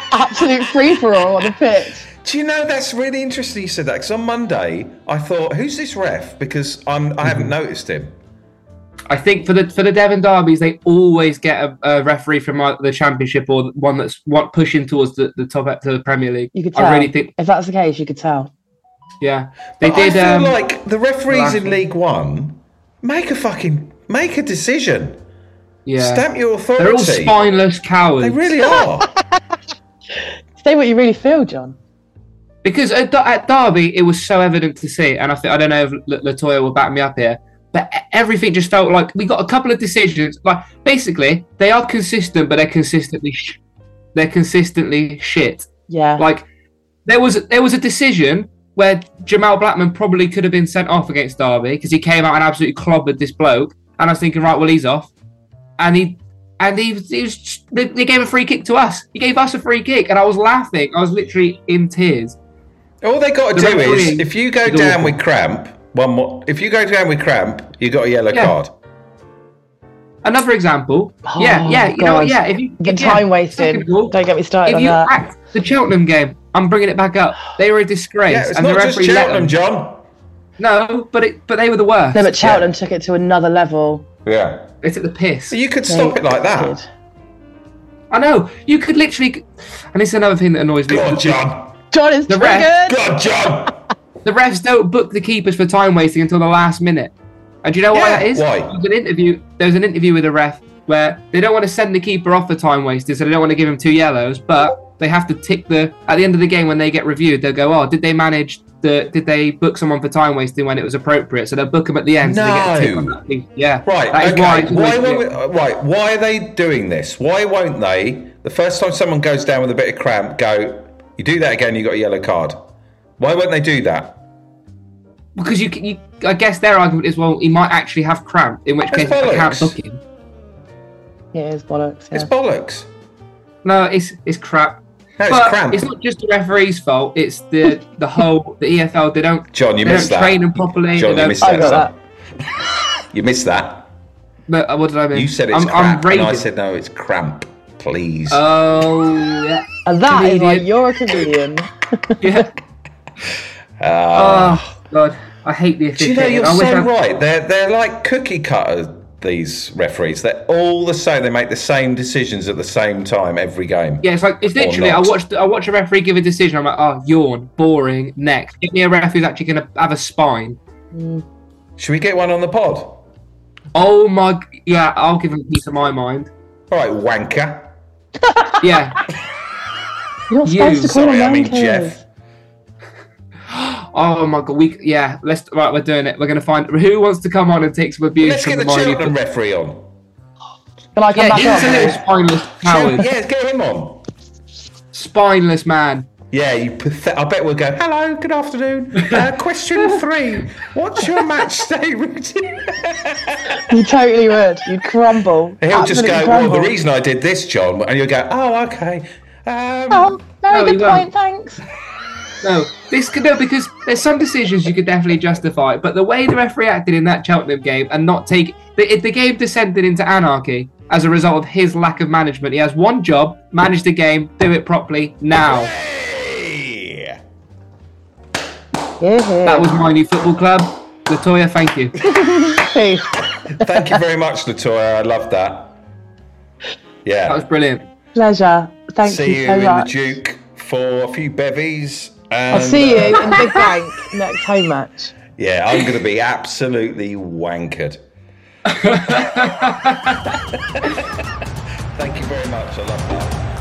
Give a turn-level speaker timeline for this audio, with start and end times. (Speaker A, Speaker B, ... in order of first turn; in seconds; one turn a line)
Speaker A: 0.1-2.1
Speaker B: 2.2-8.1
Speaker C: 7.2-7.5
Speaker C: 9.1-17.3
Speaker A: 16.5-18.5
Speaker C: 19.2-20.6
Speaker B: 19.8-25.2
Speaker C: 21.3-21.8
Speaker C: 25.9-26.2
Speaker B: 26.0-27.4
Speaker C: 26.8-28.7
Speaker B: 28.2-29.1
Speaker A: 30.6-31.8
Speaker C: 32.6-43.6
Speaker C: 44.1-46.5
Speaker A: 45.9-46.2
Speaker C: 47.1-55.1
Speaker C: 55.8-62.4
Speaker B: 63.0-68.7
Speaker C: 63.5-65.2
Speaker C: 70.2-74.2
Speaker A: 71.2-75.1
Speaker C: 74.7-79.5
Speaker B: 78.3-80.0
Speaker C: 80.6-82.3
Speaker A: 82.2-84.1
Speaker B: 82.4-82.7
Speaker B: 84.2-84.7
Speaker C: 84.8-85.6
Speaker B: 85.5-86.7
Speaker A: 85.9-86.9
Speaker C: 88.1-91.5
Speaker B: 90.9-91.7
Speaker A: 91.9-93.1
Speaker C: 92.3-92.7
Speaker B: 92.8-93.8
Speaker C: 94.2-97.1
Speaker C: 97.6-115.3
Speaker B: 97.9-98.7
Speaker B: 112.2-113.2
Speaker B: 113.8-122.7
Speaker B: 123.2-124.2
Speaker C: 125.4-130.0
Speaker B: 128.9-129.8
Speaker A: 131.3-132.3
Speaker B: 132.1-132.9
Speaker C: 133.6-141.8
Speaker B: 135.2-135.9
Speaker B: 139.5-141.9
Speaker A: 141.4-141.9
Speaker B: 143.1-143.9
Speaker C: 144.5-146.5
Speaker B: 145.1-148.4
Speaker C: 148.3-150.7
Speaker A: 149.9-152.5
Speaker C: 152.2-152.5
Speaker B: 153.8-154.7
Speaker C: 154.1-156.9
Speaker B: 156.0-165.1
Speaker C: 164.0-170.6
Speaker A: 170.9-171.2
Speaker B: 171.8-173.0
Speaker C: 173.7-176.3
Speaker B: 176.7-177.7
Speaker A: 178.3-178.5
Speaker C: 178.6-179.0
Speaker A: 180.3-182.0
Speaker C: 180.4-180.9
Speaker B: 180.8-182.0
Speaker C: 183.5-189.1
Speaker B: 188.2-189.8
Speaker A: 191.0-192.0
Speaker C: 191.2-193.1
Speaker B: 192.6-194.0
Speaker C: 194.9-196.1
Speaker B: 196.3-203.6
Speaker A: 203.7-206.7
Speaker B: 205.6-210.2
Speaker A: 209.9-211.6
Speaker C: 210.5-211.1
Speaker C: 212.4-225.7
Speaker B: 225.5-227.2
Speaker A: 229.0-229.8
Speaker C: 229.4-231.9
Speaker A: 232.0-233.9
Speaker B: 233.5-235.8
Speaker B: 237.0-237.4
Speaker C: 237.3-237.9
Speaker A: 238.2-239.9
Speaker B: 239.0-243.5
Speaker A: 242.5-245.1
Speaker B: 245.4-248.0
Speaker C: 248.7-250.2
Speaker B: 250.7-251.2
Speaker B: 251.9-253.4